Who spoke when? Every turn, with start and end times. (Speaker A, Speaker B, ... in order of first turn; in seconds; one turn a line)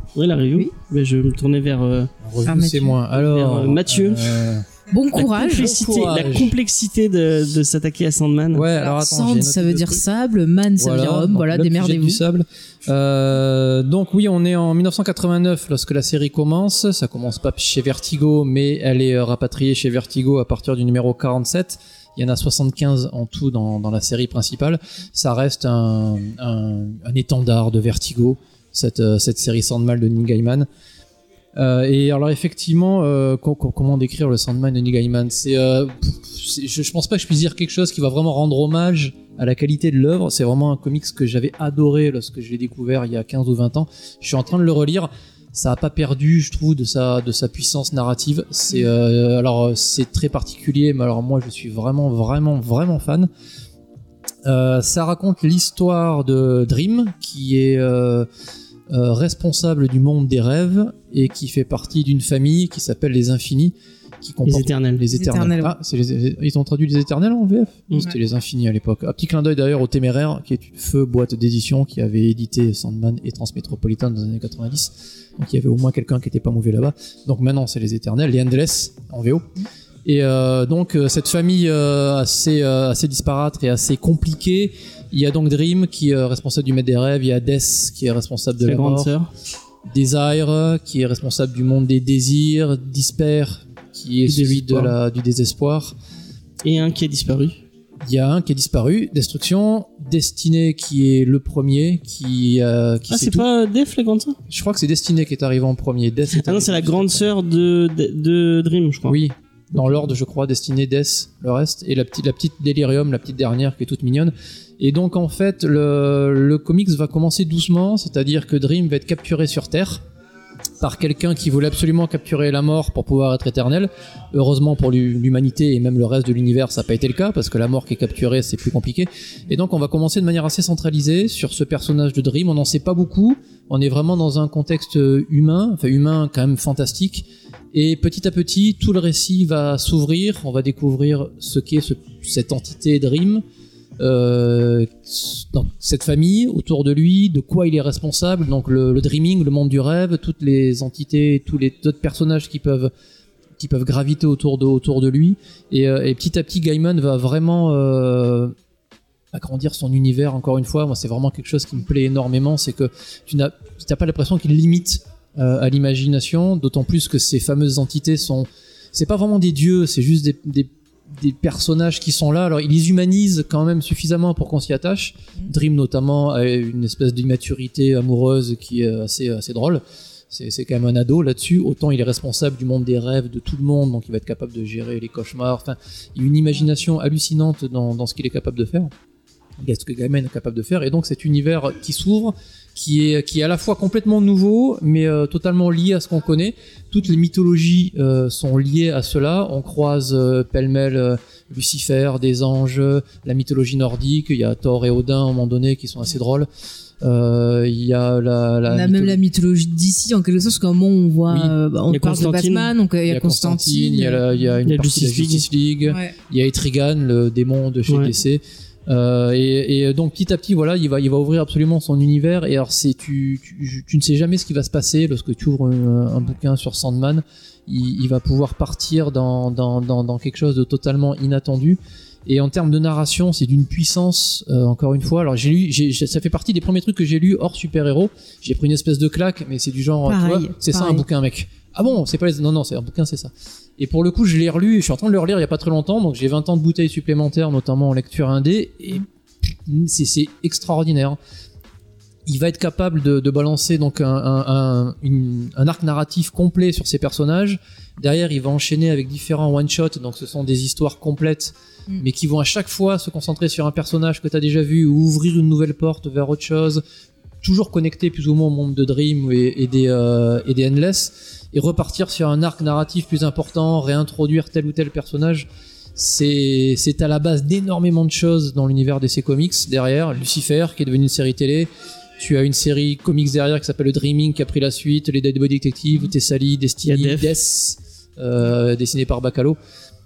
Speaker A: 0.1-2.1
Speaker B: 2.2-4.7
Speaker C: 2.4-3.0
Speaker A: 3.1-4.3
Speaker C: 4.9-5.7
Speaker A: 5.1-8.7
Speaker B: 5.4-6.5
Speaker B: 8.5-10.0
Speaker C: 8.8-12.2
Speaker B: 10.8-30.7
Speaker B: 31.6-53.3
Speaker B: 54.4-58.3
Speaker B: 58.9-79.5
Speaker A: 64.4-65.0
Speaker C: 65.1-65.8
Speaker B: 80.0-89.1
Speaker A: 88.6-89.3
Speaker B: 89.9-96.0
Speaker A: 94.2-95.0
Speaker A: 96.6-97.6
Speaker B: 98.0-103.5
Speaker A: 103.1-104.4
Speaker B: 104.5-107.3
Speaker A: 106.3-109.2
Speaker B: 109.1-120.0
Speaker B: 120.8-143.4
Speaker B: 144.0-152.9
Speaker B: 153.6-158.5
Speaker B: 159.3-188.9
Speaker B: 189.6-206.5
Speaker B: 207.0-209.2
Speaker C: 208.7-214.2
Speaker A: 211.9-212.7
Speaker B: 213.1-251.2
Speaker A: 214.7-215.5
Speaker C: 215.9-216.1
Speaker A: 217.9-218.1
Speaker C: 240.0-241.0
Speaker B: 252.2-266.8
Speaker B: 267.4-289.6
Speaker A: 286.8-287.3